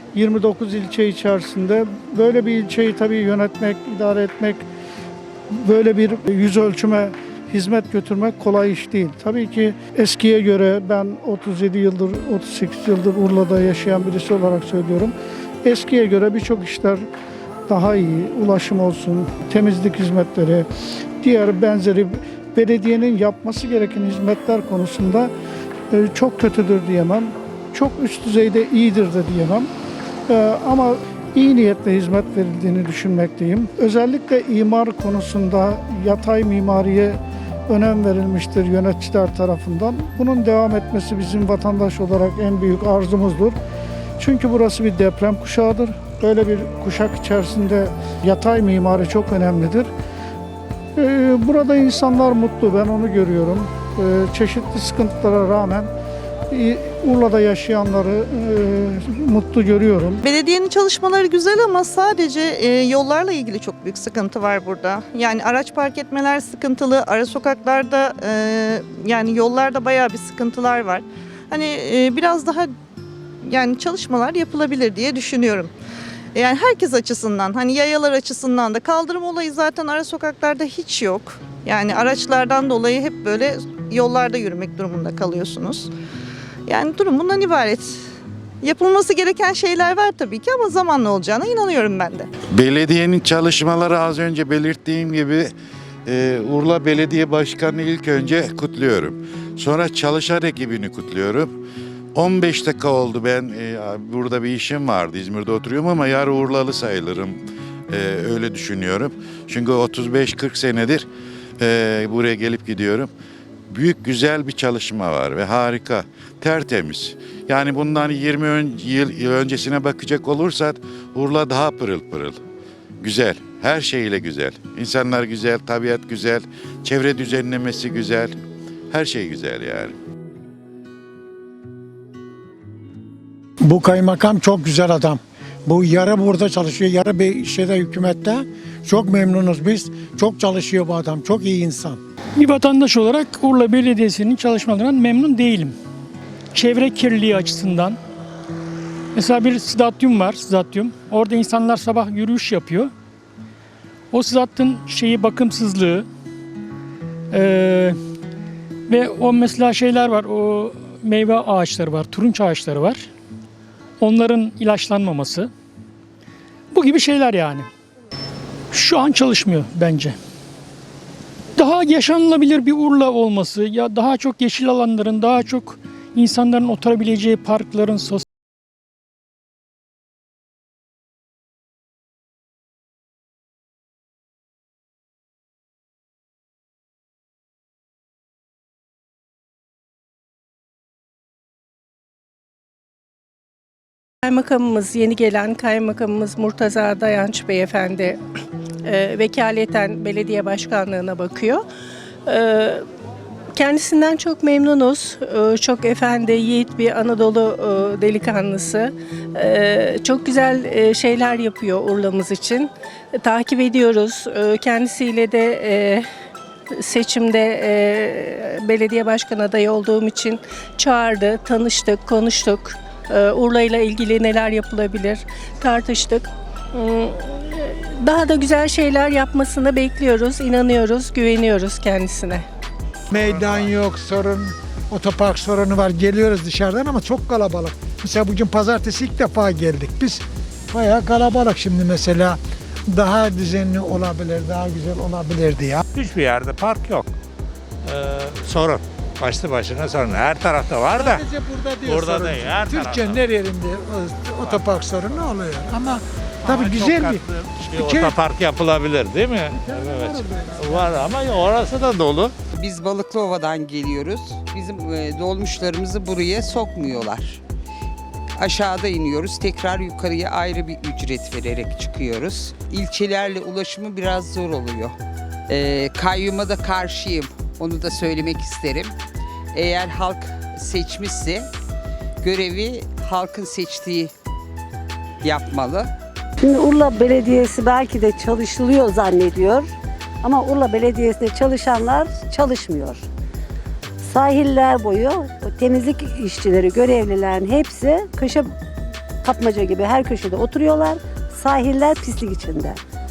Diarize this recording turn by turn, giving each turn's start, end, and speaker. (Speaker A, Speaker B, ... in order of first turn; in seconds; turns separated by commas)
Speaker A: 0.1-4.7, Speaker A: 5.5-15.1, Speaker A: 15.7-17.1, Speaker A: 17.7-20.7, Speaker A: 21.2-25.3, Speaker A: 25.9-29.7, Speaker A: 30.3-43.5, Speaker A: 44.2-49.9, Speaker A: 51.0-55.9, Speaker A: 56.5-60.2, Speaker B: 60.2-72.7, Speaker B: 73.4-75.7, Speaker B: 76.3-85.9, Speaker B: 86.7-88.0, Speaker B: 88.6-92.3, Speaker C: 92.5-95.5, Speaker C: 96.1-101.5, Speaker C: 102.2-111.1, Speaker C: 111.6-113.1, Speaker C: 113.7-122.4, Speaker C: 123.0-128.3, Speaker C: 128.9-129.9, Speaker D: 133.6-142.0, Speaker E: 142.4-145.8, Speaker E: 146.5-148.0, Speaker E: 149.2-152.9, Speaker E: 154.1-156.1, Speaker E: 157.3-158.0, Speaker E: 158.9-163.1, Speaker E: 164.0-165.5, Speaker E: 166.7-167.7, Speaker E: 168.7-170.2, Speaker E: 171.6-178.2, Speaker F: 194.2-198.2, Speaker F: 198.8-201.7, Speaker F: 202.3-202.8, Speaker F: 203.5-216.1, Speaker F: 216.7-232.5, Speaker G: 233.1-233.8, Speaker D: 233.1-242.4, Speaker D: 242.9-245.8, Speaker G: 245.9-247.1, Speaker G: 247.8-251.2, Speaker D: 250.9-257.2, Speaker G: 251.8-253.3, Speaker G: 254.4-255.3, Speaker G: 256.5-262.3, Speaker D: 257.8-258.1, Speaker D: 259.6-260.9, Speaker H: 262.5-267.4, Speaker H: 268.4-275.0, Speaker H: 275.5-278.9, Speaker H: 279.5-281.5, Speaker H: 282.2-284.1, Speaker H: 285.2-285.9, Speaker I: 286.4-289.7, Speaker I: 290.2-293.1, Speaker I: 294.0-298.5, Speaker I: 299.2-302.8